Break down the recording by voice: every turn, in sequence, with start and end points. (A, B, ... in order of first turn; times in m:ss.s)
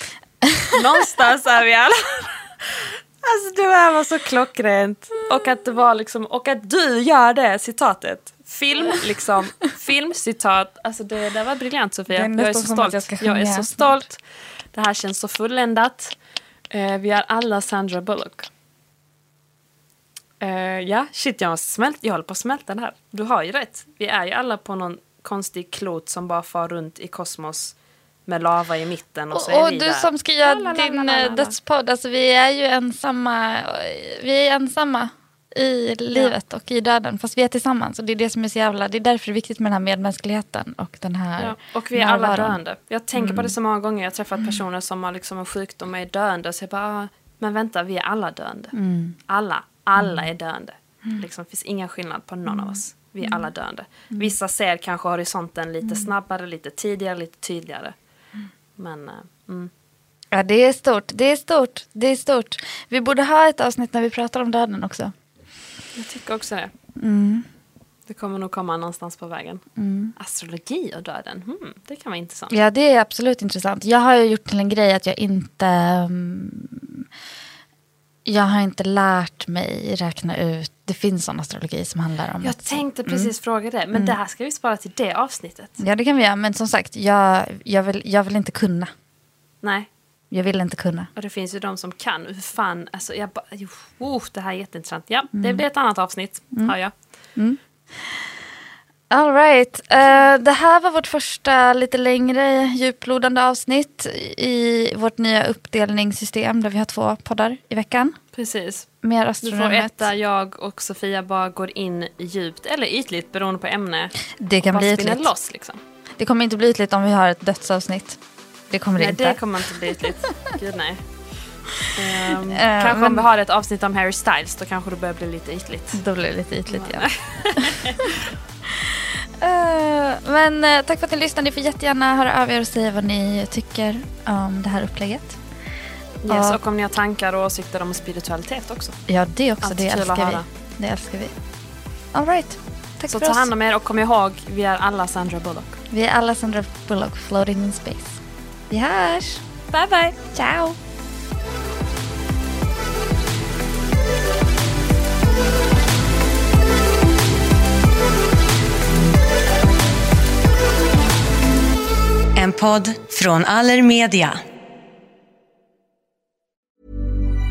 0:00.7-0:14.2 A
0:12.1-0:13.9 B
0:14.7-0:16.1 A
0:16.7-0:18.5 A
0:20.4-0:27.7 A
0:28.2-0:31.5 A
0:29.3-0:42.6 B
0:41.4-0:48.7 A
0:43.1-0:43.5 B
0:48.7-0:49.2 B
0:49.3-0:57.9 A
0:50.0-0:50.3 B
0:52.5-0:53.4 B
0:55.8-0:56.1 B
0:58.8-0:59.7 A
1:00.3-1:05.1 B
1:06.0-1:06.7 A
1:07.0-1:07.5 B
1:08.1-1:09.6 A
1:09.8-1:10.1 B
1:10.2-1:12.5 A
1:12.5-1:17.0 B
1:18.2-1:23.3 B
1:22.4-1:25.8 A
1:25.8-1:28.9 B
1:29.6-1:29.9 A
1:30.3-1:31.1 B
1:31.2-1:36.9 A
1:35.3-1:35.6 B
1:37.4-1:38.2 B
1:39.1-1:48.2 B
1:48.3-1:48.9 A
1:49.0-1:50.1 B
1:49.4-1:55.8 A
1:54.4-1:55.3 B
1:56.2-1:58.2 B
1:58.7-1:59.4 B
1:59.0-2:01.0 A
2:01.9-2:06.0 A
2:02.2-2:03.3 B
2:05.9-2:07.8 B
2:06.7-2:08.2 A
2:08.7-2:15.4 B
2:16.2-2:19.0 A
2:16.3-2:16.6 B
2:19.1-2:21.3 B
2:19.6-2:20.5 A
2:22.1-2:23.5 B
2:23.1-2:25.8 A
2:25.9-2:29.4 B
2:29.7-2:30.2 A
2:30.3-2:30.8 B
2:42.4-2:44.4 C